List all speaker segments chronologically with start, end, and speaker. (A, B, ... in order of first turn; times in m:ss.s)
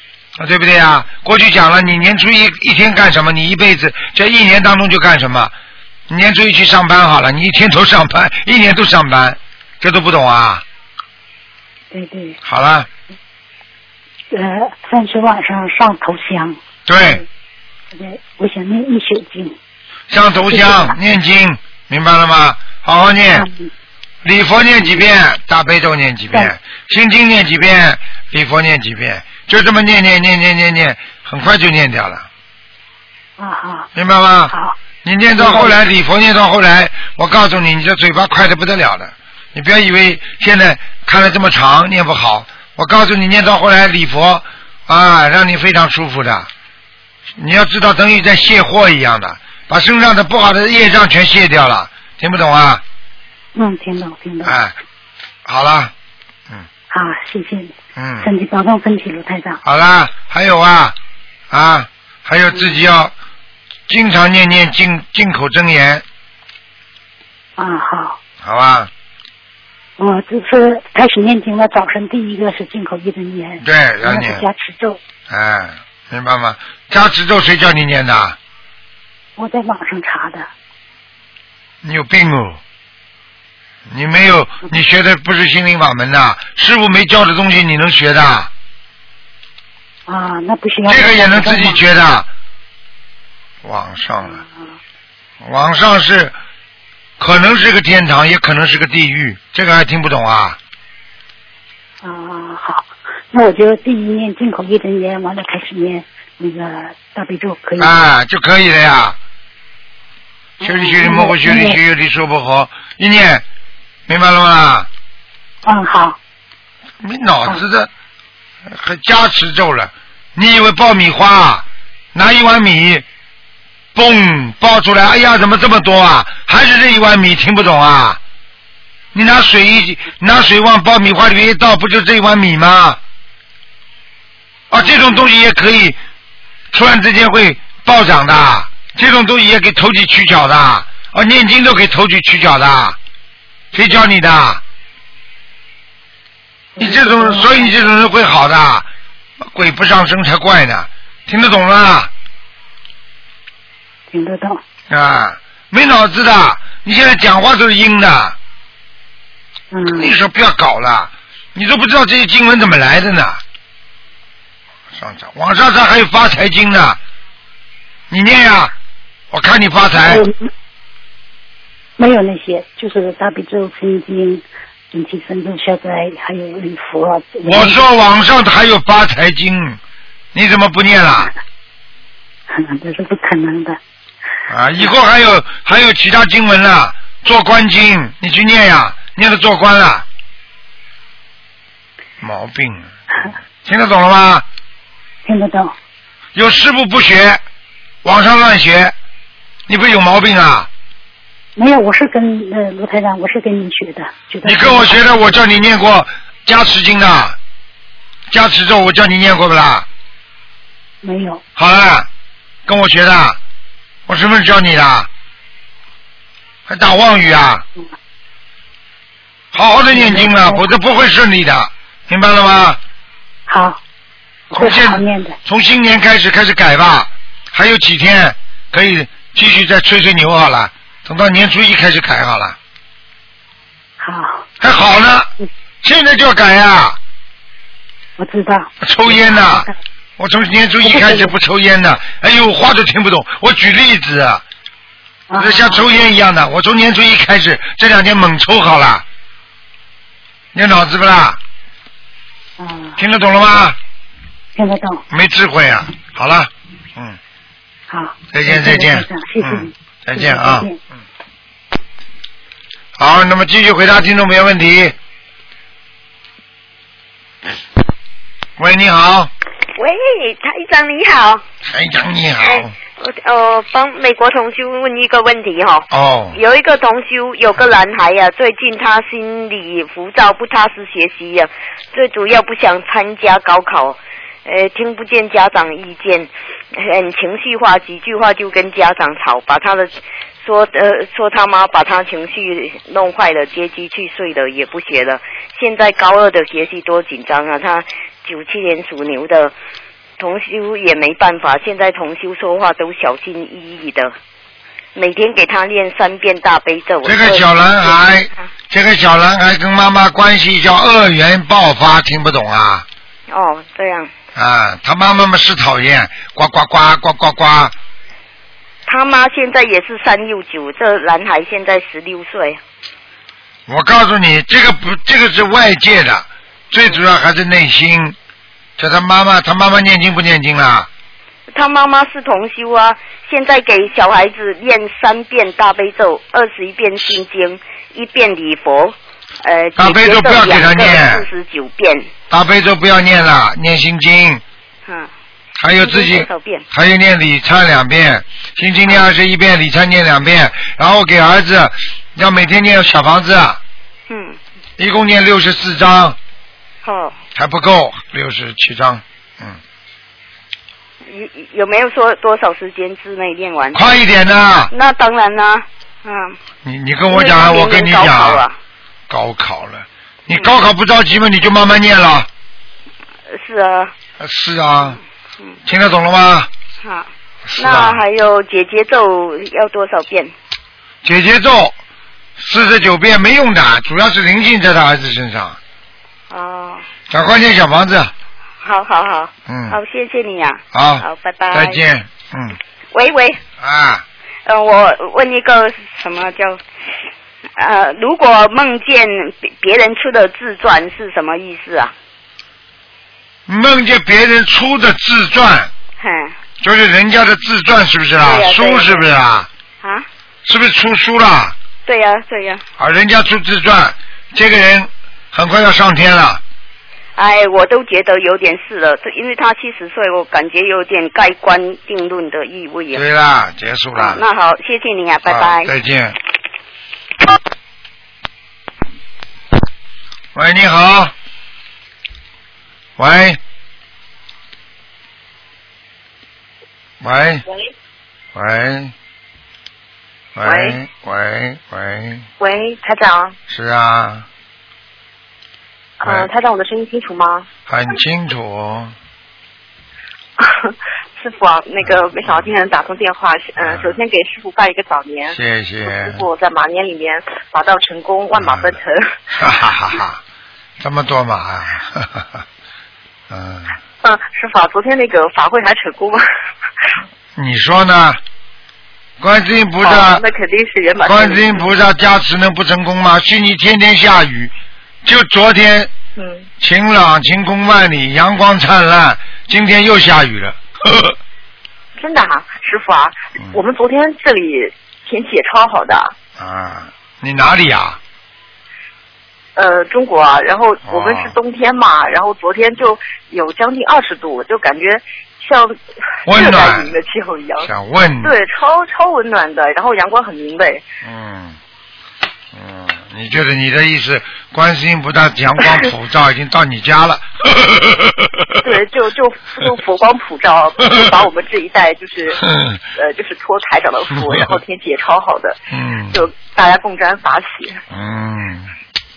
0:00.4-0:05.5 A
0:06.1-0:10.6 A
0:11.9-0:12.4 B
0:12.4-0:12.9 A
0:14.3-0:17.2 B
0:16.8-0:17.2 A
0:17.9-0:19.6 B
0:20.1-0:23.5 A
0:20.3-0:21.0 B
0:23.3-0:23.7 B
0:24.2-0:32.3 A
0:33.4-0:33.9 B
0:33.9-0:46.5 A
0:34.5-0:34.8 B
0:35.3-0:35.8 B
0:47.4-0:52.8 A
0:53.5-0:54.6 B
0:54.4-0:54.7 A
0:55.4-0:55.9 A
0:56.9-0:59.6 B
0:58.0-0:58.3 A
0:59.6-1:01.0 A
1:01.5-1:03.1 A
1:02.5-1:02.8 B
1:03.9-1:06.0 A
1:07.6-1:08.2 B
1:08.4-1:08.9 A
1:10.0-1:15.0 B
1:13.6-1:14.4 A
1:15.3-1:18.4 A
1:19.4-1:20.5 B
1:21.8-1:22.6 A
1:23.9-1:28.5 A
1:30.1-1:31.8 B
1:30.9-1:32.3 A
1:33.6-1:34.4 A
1:35.4-1:36.3 A
1:37.2-1:40.6 A
1:42.0-1:47.9 B
1:47.8-1:49.2 A
1:50.6-1:51.8 B
1:50.6-1:53.4 A
1:54.1-1:54.9 A
1:55.6-1:56.2 B
1:57.0-1:57.9 A
1:58.6-2:03.0 A
2:03.9-2:08.2 A
2:09.1-2:13.0 A
2:14.7-2:16.0 A
2:16.7-2:23.0 A
2:23.7-2:24.6 A
2:26.8-2:27.8 B
2:26.8-2:28.9 A
2:29.4-2:32.1 A
2:34.1-2:34.6 B
2:34.9-2:38.4 A
2:39.7-2:40.1 B
2:39.9-2:43.4 A
2:44.9-2:47.0 A
2:48.1-2:48.7 A
2:49.3-2:50.2 A
2:50.1-2:50.5 B
2:52.0-2:57.9 B
2:57.4-2:59.8 A
3:00.3-3:01.3 A
3:02.5-3:03.8 B
3:04.5-3:10.0 A
3:12.2-3:12.9 A
3:13.6-3:14.4 A
3:15.2-3:15.7 B
3:16.3-3:17.4 A
3:18.0-3:18.9 A
3:19.7-3:20.7 A
3:21.6-3:25.0 B
3:24.4-3:27.4 A
3:28.3-3:29.8 A
3:31.0-3:31.4 B
3:31.6-3:32.1 A
3:32.6-3:33.4 A
3:34.1-3:35.1 A
3:36.7-3:37.6 A
3:39.5-3:42.8 A
3:39.9-3:40.7 B
3:43.5-3:43.8 B
3:44.5-3:45.4 B
3:44.5-3:52.6 A
3:54.0-3:54.4 B
3:54.6-3:55.3 A
3:55.8-3:57.0 A
3:58.2-3:59.7 B
3:58.8-4:04.4 A
4:00.8-4:01.3 B
4:05.3-4:05.8 B
4:05.4-4:09.0 A
4:10.5-4:11.4 A
4:12.6-4:13.0 B
4:13.0-4:13.8 A
4:14.5-4:15.0 B
4:15.1-4:17.2 A
4:17.9-4:20.8 B
4:18.3-4:20.7 A
4:23.0-4:24.9 A
4:28.6-4:29.3 A
4:29.8-4:31.4 C
4:31.7-4:32.7 A
4:32.4-4:59.5 C
4:35.9-4:36.4 A
5:00.2-5:04.1 C
5:04.9-5:08.2 C
5:07.0-5:12.8 A
5:13.3-5:14.1 C
5:14.3-5:17.7 A
5:18.8-5:22.6 C
5:23.7-5:28.2 A
5:28.8-5:30.9 A
5:31.5-5:42.1 C
5:39.8-5:41.3 A
5:42.3-5:44.4 A
5:45.6-5:53.6 A
5:45.7-5:46.6 C
5:54.1-5:54.4 C
5:54.8-5:56.2 A
5:56.8-5:57.2 C
5:57.3-5:59.6 A
6:01.0-6:03.8 C
6:03.7-6:04.7 A
6:04.7-6:06.4 C
6:06.6-6:08.4 A
6:07.1-6:08.5 C
6:09.1-6:12.3 A
6:13.3-6:13.9 C
6:14.2-6:15.0 A
6:15.6-6:16.5 A
6:16.8-6:20.3 C
6:17.5-6:18.0 A
6:21.0-6:21.7 A
6:22.4-6:25.6 A
6:26.3-6:26.8 C
6:27.1-6:28.1 A
6:28.6-6:31.8 C
6:29.5-6:29.8 A
6:30.7-6:32.6 A
6:32.9-6:33.4 C
6:33.6-6:34.0 A
6:34.4-6:36.6 C
6:37.6-6:41.9 C
6:43.5-6:45.7 A
6:46.0-6:46.3 C
6:46.6-6:49.5 A
6:48.2-6:49.0 C
6:50.4-6:51.5 A
6:51.8-6:52.6 C
6:52.8-6:56.4 A
6:57.2-7:03.0 C
7:02.9-7:04.2 A
7:03.9-7:05.7 C
7:05.2-7:06.2 A
7:10.3-7:11.1 A
7:13.0-7:13.4 A
7:17.0-7:17.4 A
7:18.3-7:18.9 A
7:20.3-7:22.2 A
7:20.4-7:20.8 D
7:22.4-7:23.4 D
7:23.5-7:24.2 A
7:26.0-7:27.5 D
7:26.0-7:26.3 A
7:27.7-7:28.9 A
7:30.4-7:39.1 D
7:31.8-7:32.5 A
7:33.6-7:33.9 A
7:35.3-7:36.2 A
7:38.4-7:38.8 A
7:39.4-7:40.2 A
7:40.8-7:42.4 A
7:43.3-7:43.7 A
7:44.0-7:46.2 D
7:47.4-7:48.2 A
7:49.2-7:50.2 A
7:49.8-7:51.7 D
7:51.0-7:54.5 A
7:55.0-7:55.9 A
7:56.2-7:56.5 D
7:56.6-8:01.1 A
8:02.0-8:06.1 D
8:06.4-8:08.0 A
8:09.6-8:17.7 D
8:10.9-8:11.3 A
8:16.2-8:17.0 A
8:17.6-8:18.3 A
8:18.2-8:20.8 D
8:21.0-8:21.6 A
8:22.5-8:28.4 A
8:28.6-8:35.6 D
8:32.4-8:32.8 A
8:34.2-8:34.5 A
8:35.7-8:36.2 A
8:36.1-8:37.8 D
8:37.9-8:38.7 A